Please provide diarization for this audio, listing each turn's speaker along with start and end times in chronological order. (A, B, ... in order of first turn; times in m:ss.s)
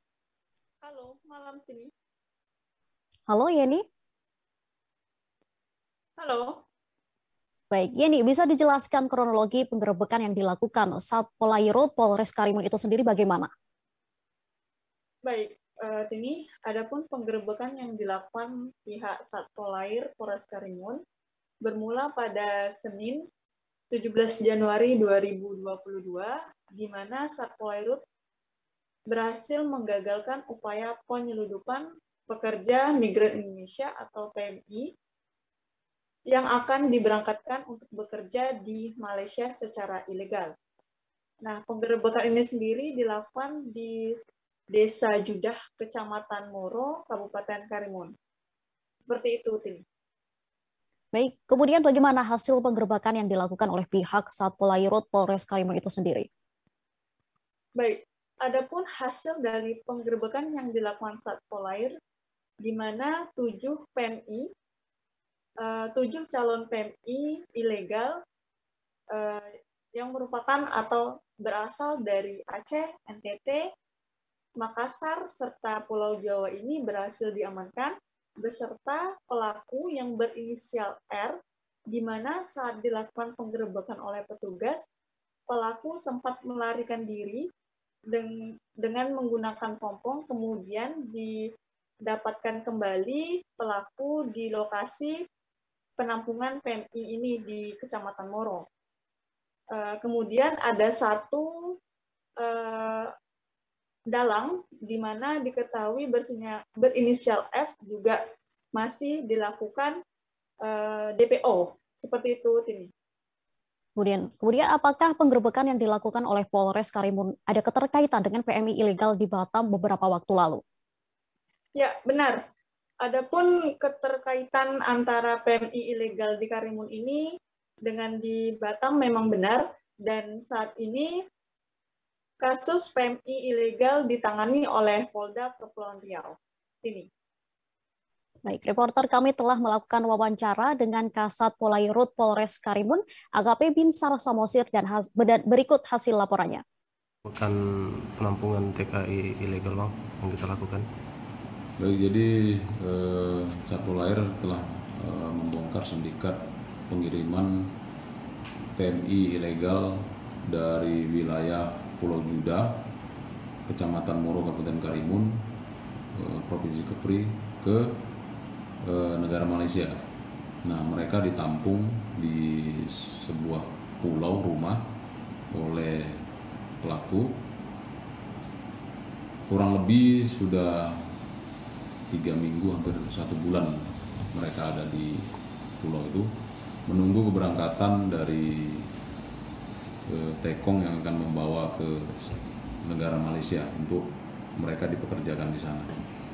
0:00.8-0:01.9 A
0:03.3-0:03.8 B
0:06.2-0:06.6 A
0:07.7-0:13.5 B
0:15.2-0:21.0 A
0:21.6-0:23.2 A
0:23.9-0:28.0 A
0:29.1-0:34.9 A
0:36.3-0:40.5 A
0:41.4-0:44.0 A
0:44.7-0:48.1 A
0:49.1-0:49.8 A
0:51.1-0:56.3 B
0:57.8-1:01.9 A
1:02.6-1:04.5 A
1:05.6-1:08.1 A
1:09.1-1:13.6 A
1:14.6-1:21.4 A
1:21.9-1:24.8 A
1:25.5-1:27.4 A
1:28.1-1:31.4 A
1:32.1-1:35.2 A
1:36.0-1:38.7 A
1:39.7-1:41.7 A
1:42.4-1:43.1 A
1:44.1-1:48.2 A
1:48.8-1:50.0 A
1:50.6-1:52.9 A
1:54.0-2:00.6 B
2:01.8-2:02.4 A
2:03.0-2:07.3 A
2:07.9-2:11.2 A
2:12.4-2:17.1 A
2:18.4-2:26.6 B
2:27.3-2:27.6 C
2:28.2-2:30.8 C
2:31.8-2:37.7 D
2:38.8-2:42.9 D
2:43.7-2:45.5 D
2:46.1-2:48.0 D
2:48.8-2:50.0 D
2:50.6-2:54.9 D
2:55.5-2:56.3 D
2:56.8-2:57.4 D
2:59.5-3:01.2 D
3:02.1-3:06.3 D
3:06.9-3:08.9 D
3:10.1-3:16.0 D